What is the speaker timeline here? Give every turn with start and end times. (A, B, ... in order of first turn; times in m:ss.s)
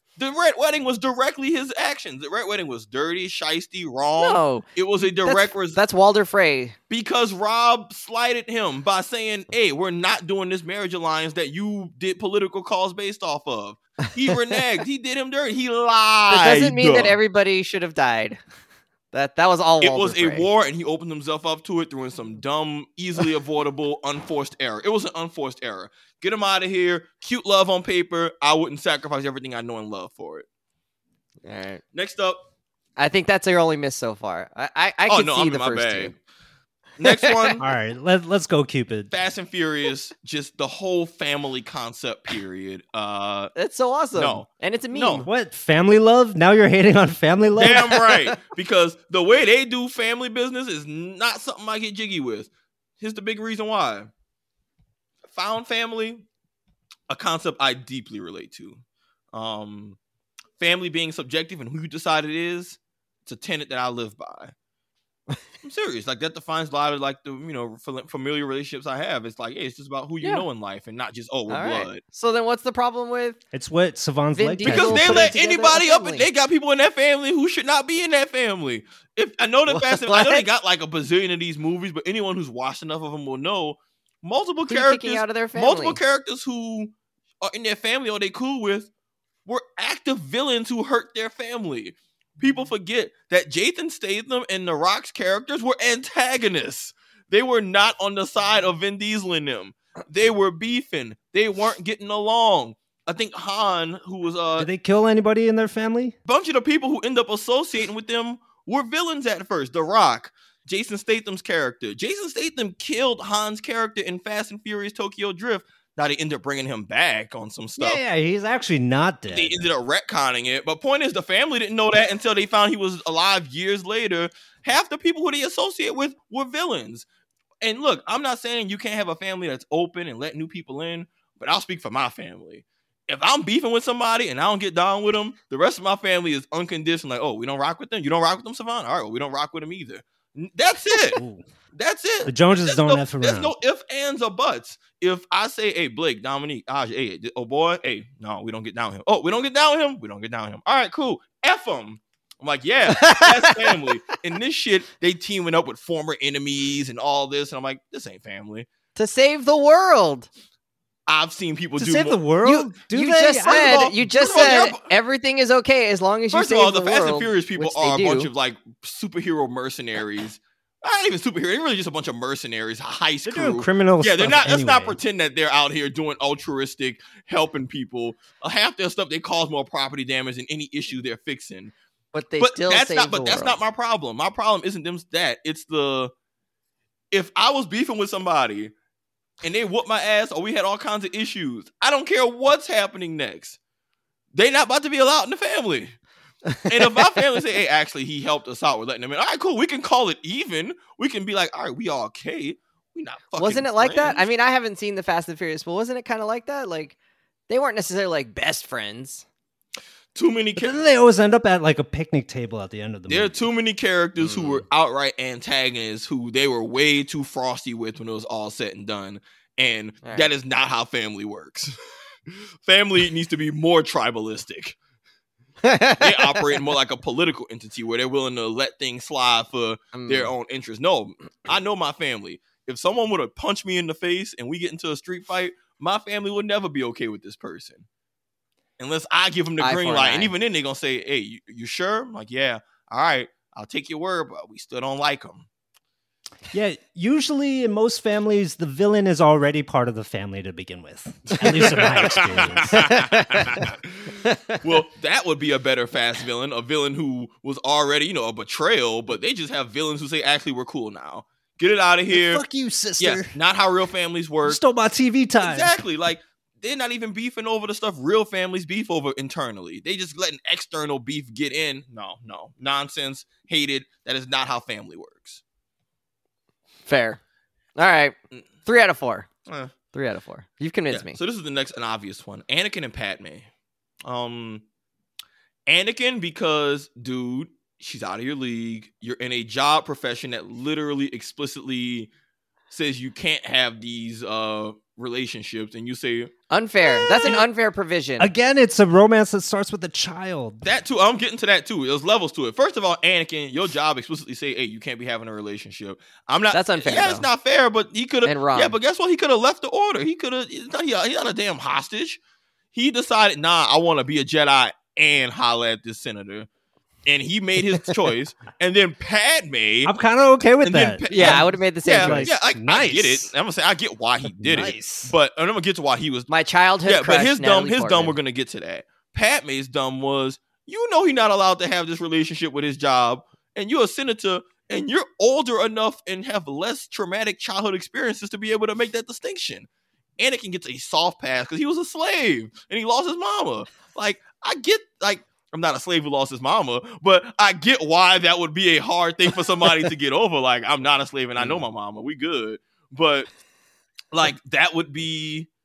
0:00.2-0:05.8 A
0:04.2-0:06.8 B
0:06.9-0:17.2 A
0:14.1-0:14.3 B
0:16.3-0:18.4 B
0:19.1-0:20.5 B
0:19.8-0:30.4 A
0:31.4-0:31.8 B
0:31.9-0:32.4 A
0:33.0-0:36.1 B
0:35.1-0:36.2 A
0:37.0-0:37.7 A
0:37.0-0:37.6 B
0:37.6-0:39.1 C
0:39.1-0:43.5 A
0:43.5-0:45.3 B
0:44.1-0:45.3 A
0:45.3-0:48.2 C
0:47.6-0:54.1 A
0:55.3-0:56.2 A
0:57.1-0:58.8 A
0:59.3-1:00.0 A
1:00.6-1:04.5 A
1:05.6-1:12.0 A
1:11.5-1:13.4 B
1:13.5-1:15.3 C
1:14.4-1:16.3 B
1:14.6-1:28.9 A
1:19.7-1:20.4 B
1:24.7-1:26.0 B
1:29.4-1:44.7 A
1:44.6-1:46.1 C
1:46.2-1:58.0 A
1:57.8-1:59.6 C
1:59.3-2:07.0 A
2:07.6-2:21.2 A
2:21.2-2:21.4 C
2:21.7-2:38.7 A
2:22.2-2:23.5 C
2:32.9-2:33.8 B
2:39.0-2:40.3 B
2:41.1-2:42.2 A
2:41.8-2:44.0 C
2:42.4-2:48.3 B
2:43.4-2:44.9 A
2:46.3-3:01.7 A
2:53.2-2:55.0 C
3:02.1-3:03.6 B
3:02.4-3:06.1 A
3:07.1-3:08.7 A
3:09.4-3:13.6 A
3:14.3-3:16.0 A
3:16.6-3:24.3 A
3:23.4-3:27.0 B
3:27.5-3:29.2 B
3:30.1-3:30.8 A
3:30.6-3:33.4 C
3:33.1-3:41.8 A
3:34.2-3:34.6 B
3:40.0-3:40.3 B
3:42.6-3:44.8 A
3:45.6-3:46.4 B
3:46.0-3:57.8 A
3:49.9-3:50.3 B
3:58.8-4:05.5 A
3:59.6-4:00.3 B
4:06.5-4:13.7 C
4:11.3-4:22.4 A
4:12.8-4:13.4 B
4:14.2-4:14.6 B
4:22.1-4:23.3 C
4:23.0-4:24.6 A
4:24.4-4:25.8 C
4:25.4-4:35.4 A
4:36.8-4:37.2 B
4:37.8-4:39.3 B
4:39.4-4:39.7 A
4:39.9-4:41.2 B
4:40.9-4:43.5 A
4:44.0-4:44.6 A
4:45.7-4:52.1 A
4:52.7-4:56.3 A
4:56.5-4:58.3 B
4:58.2-5:00.6 C
5:00.6-5:12.2 A
5:06.5-5:07.3 B
5:08.2-5:08.8 B
5:12.7-5:16.5 A
5:17.0-5:19.9 A
5:19.8-5:23.3 C
5:20.6-5:26.3 A
5:21.1-5:22.3 B
5:24.2-5:25.1 C
5:26.3-5:28.2 B
5:26.8-5:39.7 A
5:40.2-5:53.3 A
5:51.4-5:51.6 B
5:54.1-5:55.5 A